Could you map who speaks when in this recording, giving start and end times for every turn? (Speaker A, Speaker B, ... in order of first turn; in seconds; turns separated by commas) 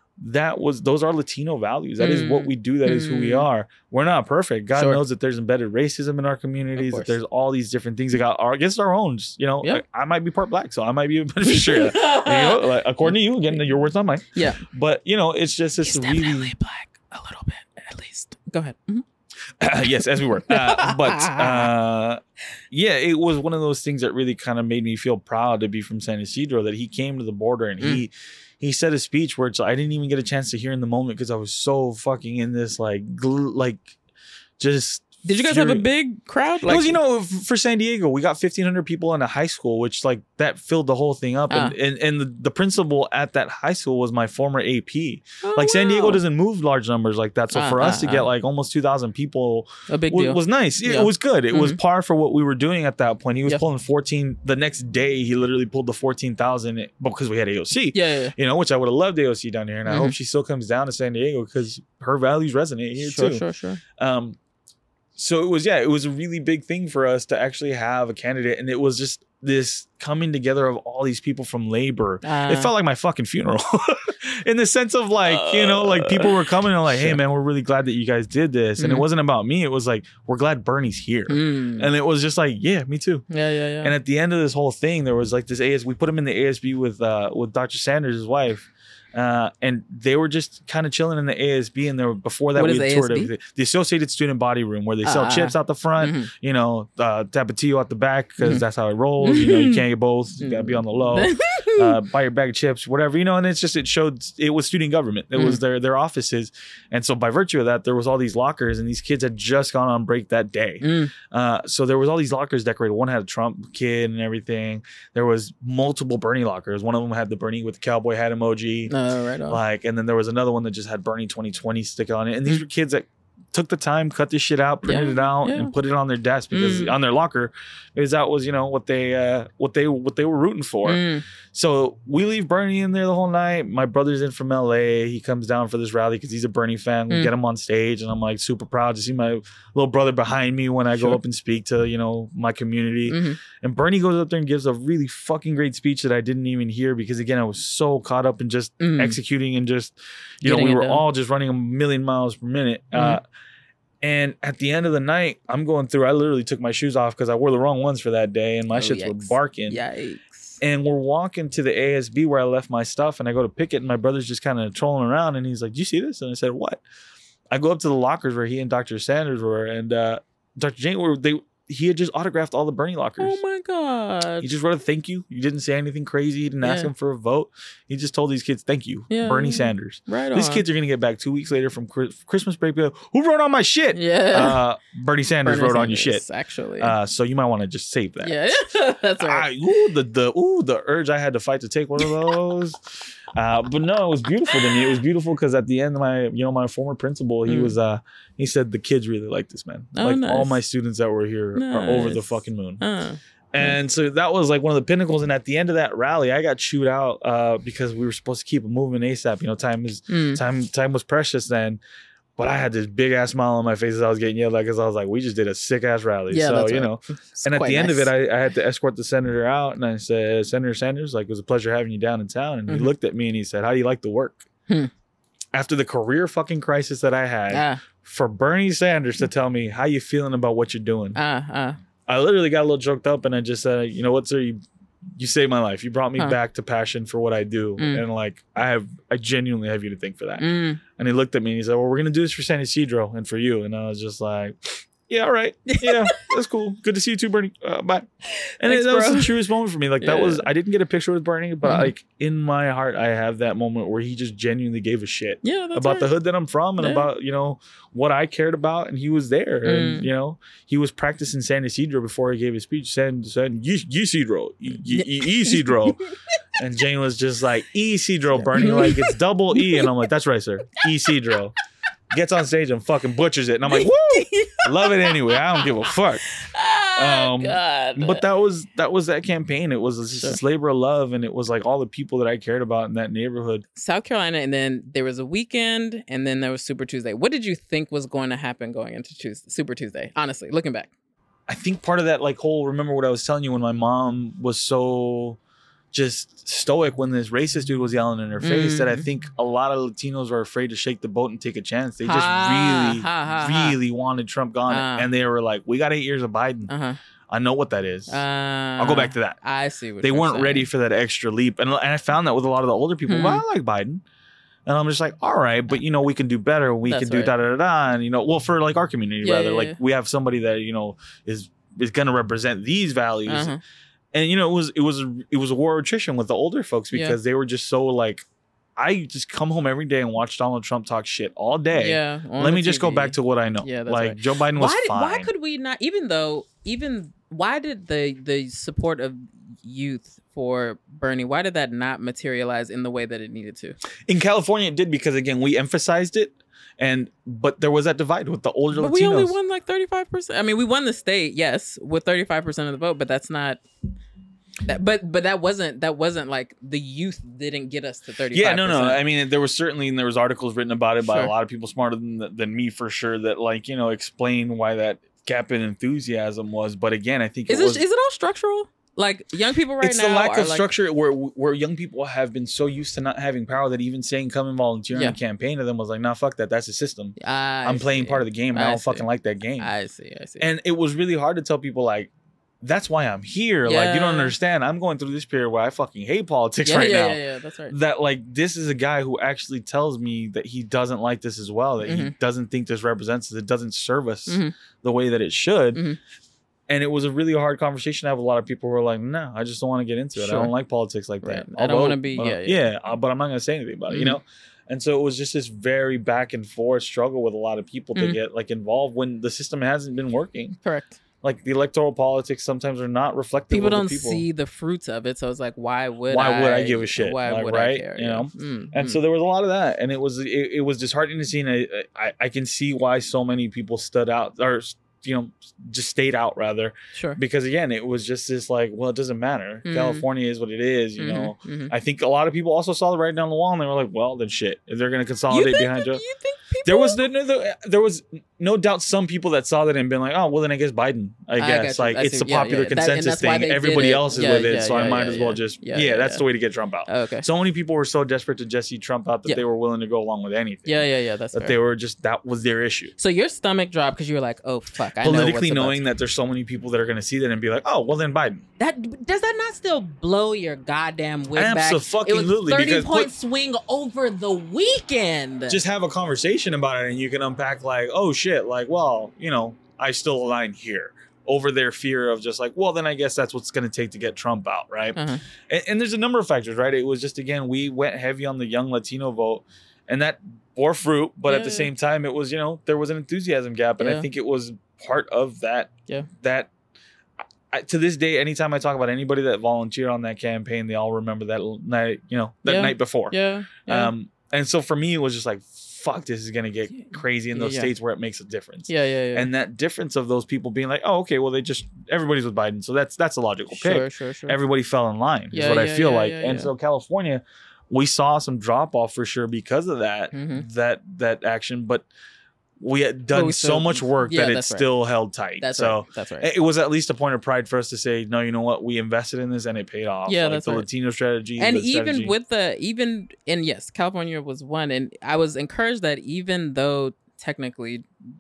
Speaker A: 0.2-16.5, Speaker B: 2.0-3.5, Speaker B: 4.8-5.0, Speaker B: 6.8-7.2, Speaker B: 11.4-13.6, Speaker B: 14.3-14.7, Speaker B: 15.8-19.0, Speaker A: 19.6-22.2, Speaker B: 20.5-21.7, Speaker A: 22.7-34.0, Speaker A: 34.6-35.9, Speaker B: 35.2-37.0, Speaker A: 36.7-63.4, Speaker B: 41.5-41.8, Speaker B: 45.4-46.2, Speaker B: 47.5-48.3, Speaker B: 49.9-51.8, Speaker B: 57.9-58.4, Speaker B: 59.9-60.1, Speaker B: 63.0-63.8, Speaker A: 64.0-64.4, Speaker A: 65.2-83.3, Speaker B: 72.2-72.7, Speaker B: 75.2-77.2, Speaker B: 78.8-79.0, Speaker B: 81.3-81.9, Speaker B: 83.3-84.0, Speaker A: 83.8-119.0, Speaker B: 92.5-93.3, Speaker B: 95.0-96.3, Speaker B: 98.4-98.7, Speaker B: 99.2-99.8, Speaker B: 100.4-102.0, Speaker B: 105.3-105.6, Speaker B: 110.8-111.1, Speaker B: 118.9-119.6, Speaker A: 119.5-131.0, Speaker B: 124.8-125.7, Speaker B: 126.5-127.0, Speaker B: 130.8-131.2, Speaker A: 131.5-153.2, Speaker B: 143.1-143.4, Speaker B: 148.8-149.2, Speaker B: 150.4-151.0, Speaker B: 152.9-153.2, Speaker A: 154.0-159.8, Speaker B: 158.7-160.6, Speaker A: 160.6-166.8, Speaker A: 167.5-173.4, Speaker B: 173.2-174.5, Speaker A: 174.4-186.2, Speaker B: 176.6-176.9, Speaker B: 179.1-180.6, Speaker B: 183.9-184.6, Speaker B: 185.4-186.9, Speaker A: 186.8-202.8, Speaker B: 188.2-189.5, Speaker B: 197.5-197.8, Speaker B: 200.0-200.6, Speaker B: 201.6-203.8, Speaker A: 203.5-211.8, Speaker B: 210.1-210.4, Speaker A: 212.4-224.4, Speaker B: 216.3-218.1, Speaker A: 225.5-231.2, Speaker B: 227.5-227.8, Speaker B: 231.2-231.8, Speaker A: 232.1-234.6, Speaker A: 235.2-248.1, Speaker B: 237.8-238.0, Speaker B: 240.4-240.8, Speaker B: 245.7-246.3, Speaker B: 248.3-249.3, Speaker A: 248.6-266.0, Speaker B: 250.0-250.5, Speaker B: 251.6-251.9, Speaker B: 255.4-256.1, Speaker B: 256.8-257.1, Speaker B: 259.6-260.1, Speaker B: 264.9-266.1, Speaker A: 266.6-271.5, Speaker B: 268.4-269.9, Speaker B: 270.8-271.4, Speaker A: 272.1-276.4, Speaker B: 273.7-278.2, Speaker A: 277.0-283.6, Speaker B: 280.1-280.4, Speaker B: 283.8-290.9, Speaker A: 291.5-295.4, Speaker A: 295.9-306.7, Speaker B: 298.4-299.1, Speaker B: 302.0-303.8, Speaker B: 304.7-305.1, Speaker B: 306.7-307.0, Speaker A: 307.3-308.2, Speaker B: 308.1-310.7, Speaker A: 308.8-309.4, Speaker A: 310.0-314.0, Speaker B: 313.1-313.4, Speaker A: 314.7-323.6, Speaker B: 316.9-317.3, Speaker B: 319.2-319.8, Speaker B: 323.3-323.6, Speaker A: 324.1-328.2, Speaker B: 326.9-327.2, Speaker A: 328.8-335.3, Speaker B: 331.8-343.8, Speaker A: 344.1-349.4, Speaker B: 348.7-353.6, Speaker B: 354.7-359.0, Speaker A: 358.3-367.8, Speaker B: 361.1-361.3, Speaker B: 367.5-370.7, Speaker A: 369.8-379.7, Speaker B: 374.9-375.2, Speaker B: 377.2-379.1, Speaker B: 379.6-380.5, Speaker A: 380.4-382.1, Speaker A: 382.6-395.8, Speaker B: 383.6-384.3, Speaker B: 386.6-387.8, Speaker B: 391.8-392.1, Speaker B: 394.3-394.5, Speaker A: 396.7-410.6, Speaker B: 400.2-400.5, Speaker B: 401.2-402.7, Speaker B: 403.9-404.2, Speaker B: 410.6-411.0, Speaker A: 411.2-414.3, Speaker B: 413.5-419.0, Speaker A: 416.1-436.0, Speaker B: 426.9-427.2, Speaker B: 429.7-430.1, Speaker B: 431.0-431.7, Speaker B: 435.3-437.0, Speaker A: 436.6-452.9, Speaker B: 441.4-446.2, Speaker B: 446.9-447.3, Speaker B: 450.7-451.5, Speaker B: 453.0-455.8, Speaker A: 455.0-458.4, Speaker B: 458.6-465.6, Speaker A: 461.4-463.1, Speaker A: 465.5-486.5, Speaker B: 475.0-475.2, Speaker B: 481.3-481.7, Speaker B: 483.8-484.1, Speaker A: 487.5-493.1, Speaker B: 492.5-493.9, Speaker A: 493.7-511.9, Speaker B: 496.8-497.7, Speaker B: 498.7-499.3, Speaker B: 503.5-504.4, Speaker B: 505.3-506.5, Speaker B: 510.1-510.5, Speaker A: 512.6-522.1, Speaker B: 513.1-514.7, Speaker B: 515.4-516.3, Speaker B: 520.1-520.7, Speaker B: 521.4-527.9